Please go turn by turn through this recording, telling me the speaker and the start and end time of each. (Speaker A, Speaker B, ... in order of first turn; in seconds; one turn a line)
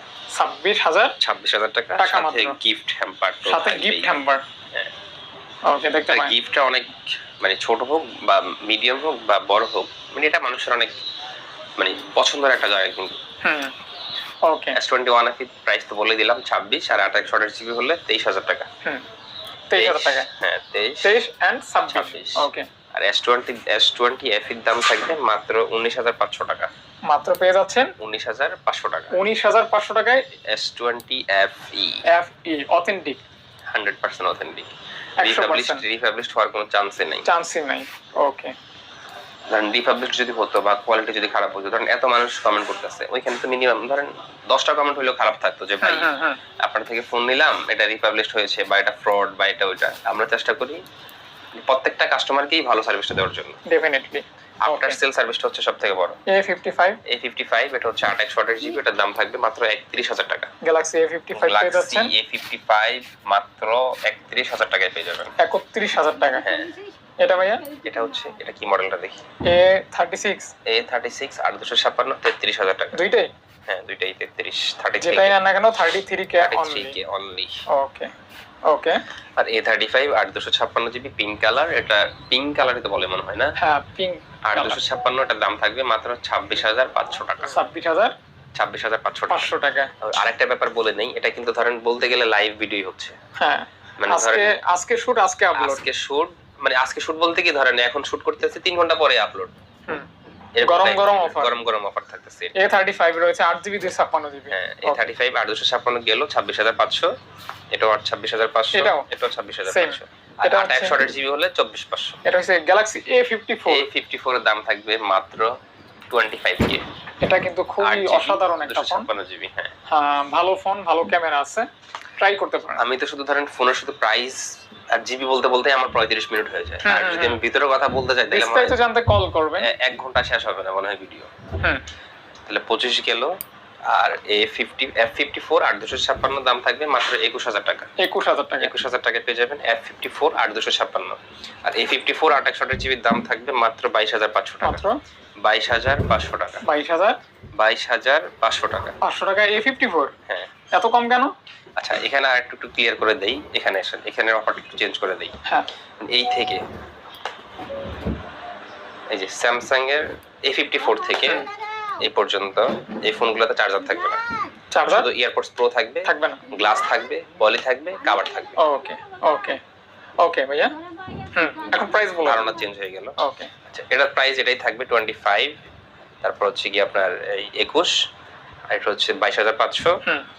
Speaker A: 0.3-1.1
Speaker B: 1.2-4.1
Speaker A: 2.0-2.6
Speaker A: 3.4-4.4
Speaker A: 5.7-6.3
Speaker B: 6.1-11.0
Speaker B: 11.8-13.2
Speaker A: 13.4-13.7
Speaker A: 14.5-14.8
Speaker B: 14.7-18.7
Speaker A: 19.7-20.3
Speaker B: 19.8-21.1
Speaker A: 21.0-22.7
Speaker B: 21.9-26.7
Speaker A: 27.1-27.9
Speaker B: 28.0-29.2
Speaker A: 29.1-30.2
Speaker B: 30.5-32.0
Speaker A: 32.1-33.2
Speaker B: 33.7-37.2
Speaker A: 35.2-35.8
Speaker A: 37.2-38.5
Speaker B: 39.5-50.8
Speaker A: 45.8-46.4
Speaker B: 51.6-53.6
Speaker A: 53.7-55.0
Speaker B: 54.6-56.2
Speaker A: 56.3-57.0
Speaker B: 57.1-60.5
Speaker A: 60.6-62.1
Speaker B: 61.3-65.3
Speaker A: 65.4-66.5
Speaker B: 66.4-66.7
Speaker A: 67.2-67.7
Speaker B: 67.8-69.2
Speaker A: 69.5-70.5
Speaker B: 70.7-73.0
Speaker A: 72.9-73.3
Speaker B: 73.7-75.3
Speaker A: 75.0-77.0
Speaker B: 76.4-77.6
Speaker A: 77.7-78.1
Speaker A: 78.7-79.0
Speaker B: 79.4-83.5
Speaker A: 83.6-84.8
Speaker B: 84.5-87.5
Speaker A: 87.5-88.1
Speaker B: 88.6-93.2
Speaker A: 89.3-89.9
Speaker A: 93.4-95.8
Speaker B: 94.0-94.5
Speaker B: 95.6-99.5
Speaker B: 100.6-102.5
Speaker A: 100.6-101.5
Speaker A: 102.5-105.0
Speaker B: 104.5-107.1
Speaker B: 107.7-112.2
Speaker A: 108.7-109.1
Speaker A: 109.7-111.0
Speaker A: 112.2-113.9
Speaker B: 113.7-115.5
Speaker B: 116.1-116.8
Speaker A: 117.2-119.1
Speaker B: 117.8-119.7
Speaker A: 119.9-122.8
Speaker B: 122.8-124.4
Speaker B: 124.9-128.8
Speaker A: 126.8-127.4
Speaker A: 128.3-129.7
Speaker B: 129.6-131.3
Speaker B: 132.5-133.3
Speaker B: 133.9-137.9
Speaker A: 138.0-138.7
Speaker B: 138.6-144.8
Speaker A: 144.6-145.0
Speaker B: 145.4-146.6
Speaker A: 146.6-147.2
Speaker B: 147.6-149.0
Speaker A: 149.0-150.1
Speaker A: 150.7-151.3
Speaker B: 151.8-155.3
Speaker B: 156.0-156.6
Speaker B: 159.1-161.5
Speaker B: 162.0-164.2
Speaker A: 164.7-165.1
Speaker B: 164.9-168.6
Speaker A: 166.0-166.4
Speaker A: 168.6-169.6
Speaker A: 170.2-170.7
Speaker A: 171.3-172.5
Speaker B: 172.2-173.1
Speaker A: 173.2-173.5
Speaker B: 173.7-175.5
Speaker B: 176.2-177.9
Speaker B: 178.7-180.0